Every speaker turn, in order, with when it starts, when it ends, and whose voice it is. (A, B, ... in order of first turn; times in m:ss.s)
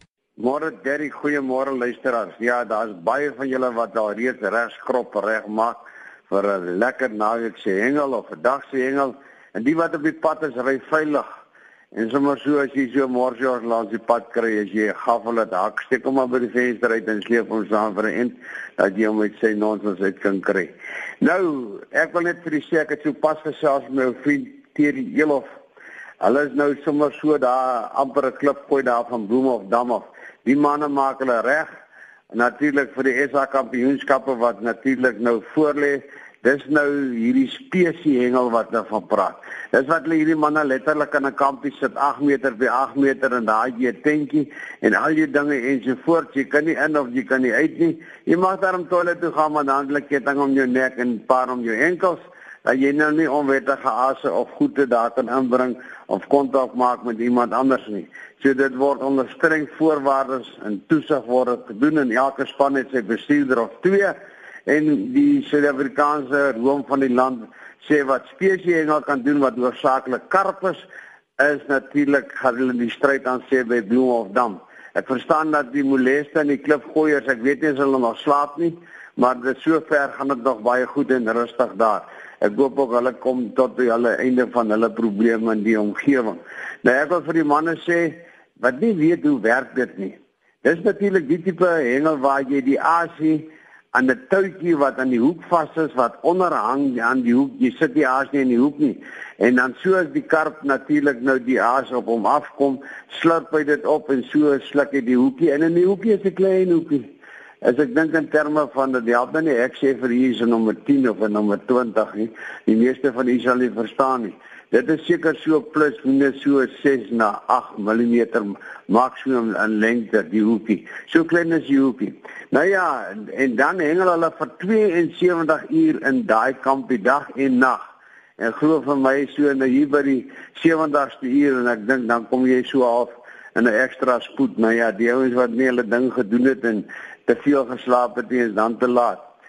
0:00.4-0:11.2 A
0:11.9-0:25.5 A
0:26.2-0:31.7 A
0:32.3-1:04.1 A
1:04.7-1:10.8 A
1:11.4-1:47.1 A
1:47.6-2:07.8 A
2:08.4-2:19.2 A